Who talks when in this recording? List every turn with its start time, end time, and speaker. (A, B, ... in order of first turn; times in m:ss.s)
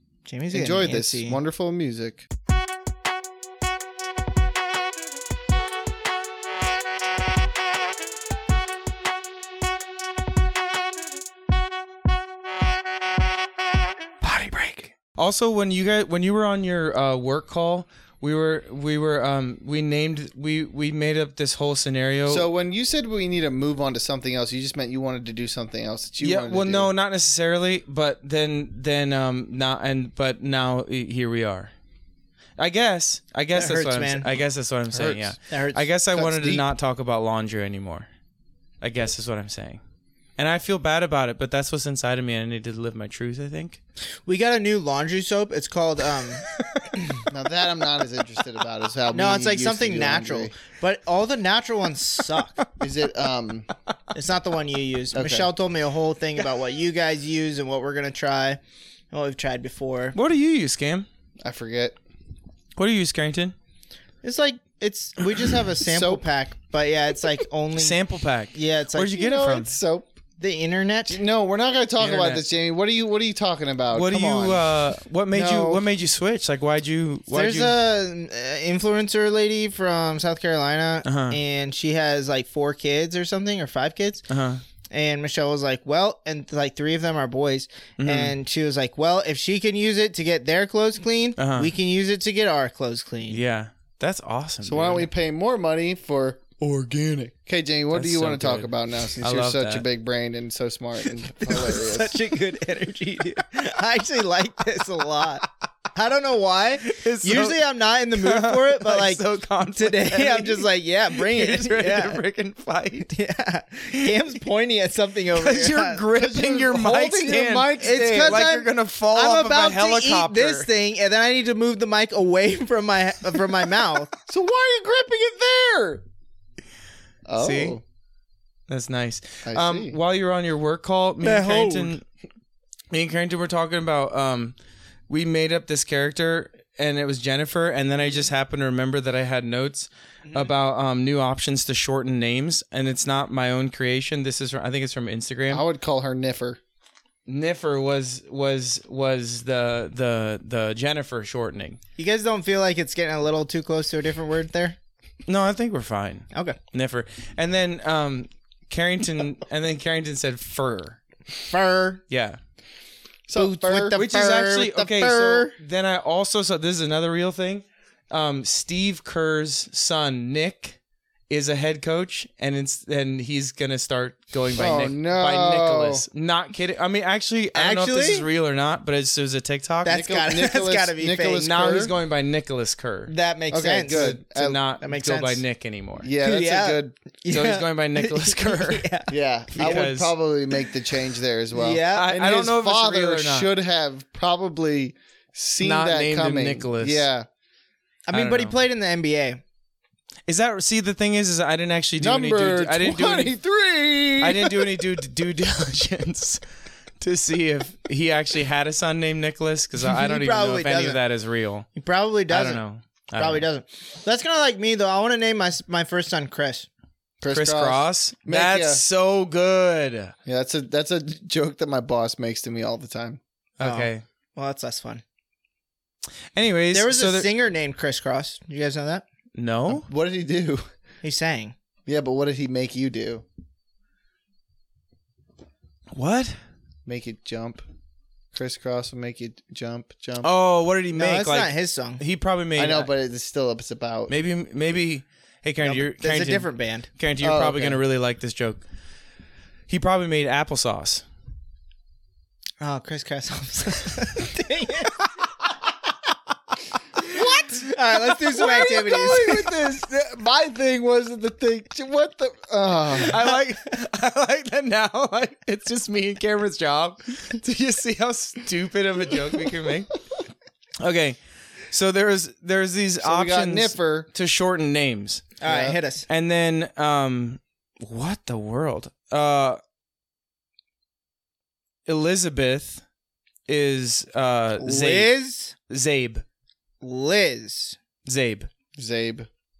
0:00.3-0:01.4 A
0:00.5-0:02.3 B
0:14.2-0:22.5 C
0:22.3-0:26.9 B
0:26.2-0:31.7 C
0:32.6-0:38.1 C
0:33.5-0:34.3 A
0:35.3-0:35.9 A
0:36.1-0:36.7 B
0:38.8-0:39.8 C
0:40.4-0:43.8 C
0:44.3-0:47.3 A
0:46.6-0:46.9 C
0:47.3-0:50.5 B
0:49.1-0:52.6 A
0:52.8-0:53.7 B
0:54.1-0:58.6 A
0:55.1-0:55.5 B
0:59.1-1:00.2 A
1:00.1-1:01.1 C
1:01.4-1:02.0 B
1:02.8-1:03.6 C
1:04.2-1:08.0 A
1:05.9-1:06.2 B
1:07.8-1:09.7 C
1:08.5-1:09.3 A
1:09.1-1:10.1 B
1:10.4-1:11.2 A
1:11.1-1:14.8 B
1:12.0-1:12.4 C
1:13.9-1:17.8 C
1:15.3-1:15.8 B
1:17.3-1:24.2 A
1:21.0-1:21.4 C
1:24.3-1:24.6 C
1:24.9-1:33.4 A
1:28.0-1:28.4 C
1:31.4-1:31.7 C
1:33.3-1:35.1 C
1:34.6-1:42.3 B
1:37.9-1:39.8 C
1:41.2-1:52.2 A
1:46.8-1:47.6 C
1:48.1-1:53.1 C
1:53.0-1:56.0 A
1:55.3-2:00.7 C
1:56.2-1:58.6 B
1:57.8-2:04.1 A
2:04.3-2:06.0 B
2:07.3-2:07.8 B
2:07.4-2:07.8 C
2:08.7-2:12.0 C
2:09.5-2:10.0 B
2:11.2-2:12.0 A
2:12.9-2:14.6 C
2:15.1-2:25.6 C
2:25.5-2:26.6 B
2:27.3-2:31.8 C
2:32.0-2:34.8 A
2:35.3-2:41.0 C
2:36.3-2:36.6 A
2:41.5-2:42.0 A
2:42.1-2:42.4 C
2:43.3-2:44.0 B
2:43.4-2:45.6 A
2:44.0-2:50.8 C
2:51.3-3:00.0 C
2:54.6-2:56.0 B
2:57.6-2:58.3 A
2:59.8-3:01.5 A
2:59.9-3:01.9 B
3:01.4-3:03.1 C
3:03.1-3:04.2 A
3:03.5-3:04.6 B
3:03.9-3:06.1 C
3:04.8-3:05.4 A
3:06.0-3:07.0 B
3:06.2-3:09.8 A
3:07.3-3:08.9 C
3:09.1-3:17.3 B
3:09.6-3:10.1 C
3:11.5-3:12.1 A
3:11.9-3:13.5 C
3:15.6-3:17.1 C
3:18.1-3:19.4 A
3:18.1-3:18.6 C
3:20.3-3:23.3 C
3:22.0-3:24.9 B
3:24.2-3:26.4 C
3:27.0-3:31.7 C
3:29.8-3:31.0 A
3:31.8-3:32.6 A
3:32.3-3:33.4 C
3:33.2-3:36.7 A
3:37.2-3:38.8 B
3:37.3-3:40.1 C
3:40.3-3:43.2 B
3:43.6-3:44.0 C
3:43.6-3:45.0 A
3:46.4-3:47.3 C
3:46.7-3:49.0 A
3:49.4-3:49.9 C
3:49.7-3:50.6 B
3:51.0-3:51.6 A
3:51.9-3:53.2 B
3:55.9-3:56.4 C
3:56.9-3:57.6 B
3:58.3-4:00.3 B
4:00.2-4:02.9 C
4:00.9-4:02.0 A
4:02.6-4:04.1 B
4:04.1-4:08.6 C
4:05.6-4:06.9 A
4:07.2-4:07.8 B
4:09.7-4:11.0 C
4:12.6-4:15.0 A
4:17.0-4:19.6 A
4:17.1-4:23.3 B
4:23.0-4:29.9 C
4:30.8-4:31.2 C
4:31.7-4:35.3 C
4:33.0-4:34.1 B
4:35.4-4:36.1 A
4:35.4-4:35.8 B
4:36.1-4:39.6 C
4:41.9-4:42.8 C
4:43.5-4:45.1 C
4:44.6-4:45.5 A
4:45.7-4:46.2 C
4:46.8-4:47.8 A
4:48.0-4:48.5 C
4:48.8-4:49.3 B